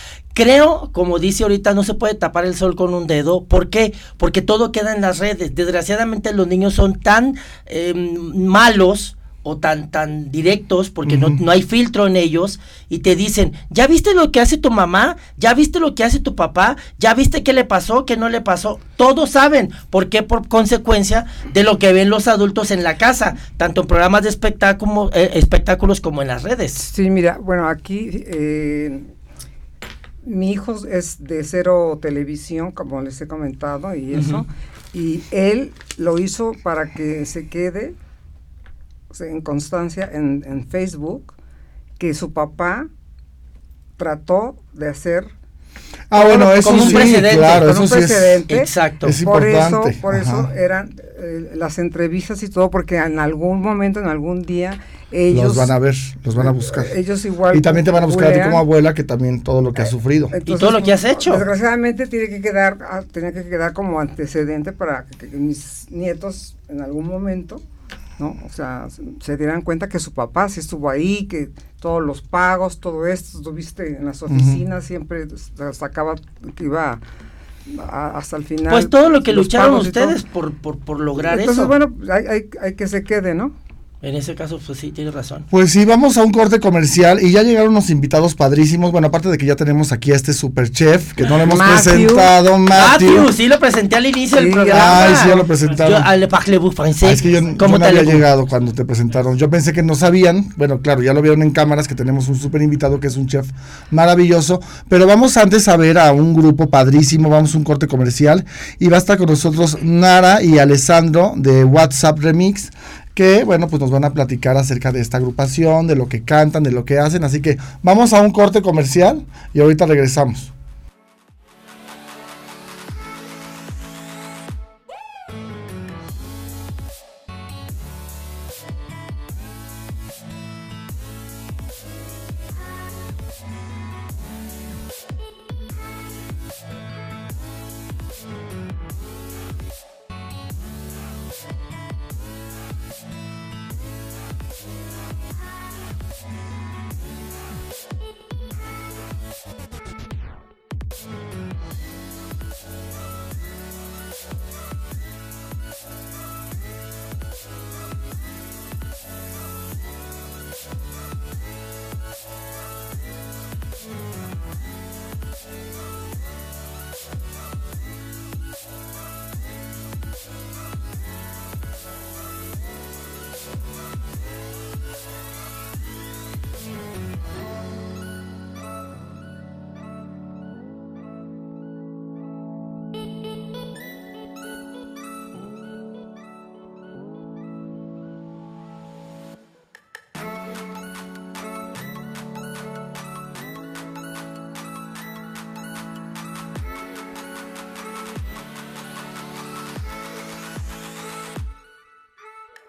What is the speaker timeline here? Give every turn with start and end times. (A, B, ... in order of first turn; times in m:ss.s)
0:00.3-0:26.8 A
0:11.0-0:11.4 B
0:26.8-0:29.1 C
0:30.2-0:37.9 C
0:34.1-0:34.4 A
0:39.1-0:41.3 C
0:42.0-0:42.9 C
0:44.0-0:45.3 C
0:46.1-0:48.4 B
0:46.1-0:48.7 C
0:46.6-0:47.7 A
0:48.5-0:49.2 A
0:49.0-0:50.5 B
0:49.2-0:55.7 C
0:55.3-0:56.9 B
0:56.4-0:58.6 C
0:57.5-1:00.3 B
1:00.3-1:07.6 C
1:00.4-1:01.4 A
1:08.2-1:17.0 C
1:14.3-1:14.6 B
1:17.7-1:20.2 C
1:18.7-1:21.7 A
1:21.2-1:23.5 C
1:24.0-1:25.4 A
1:25.5-1:33.3 B
1:31.4-1:32.3 C
1:32.7-1:38.2 A
1:34.3-1:35.5 C
1:34.7-1:36.1 B
1:37.0-2:00.5 B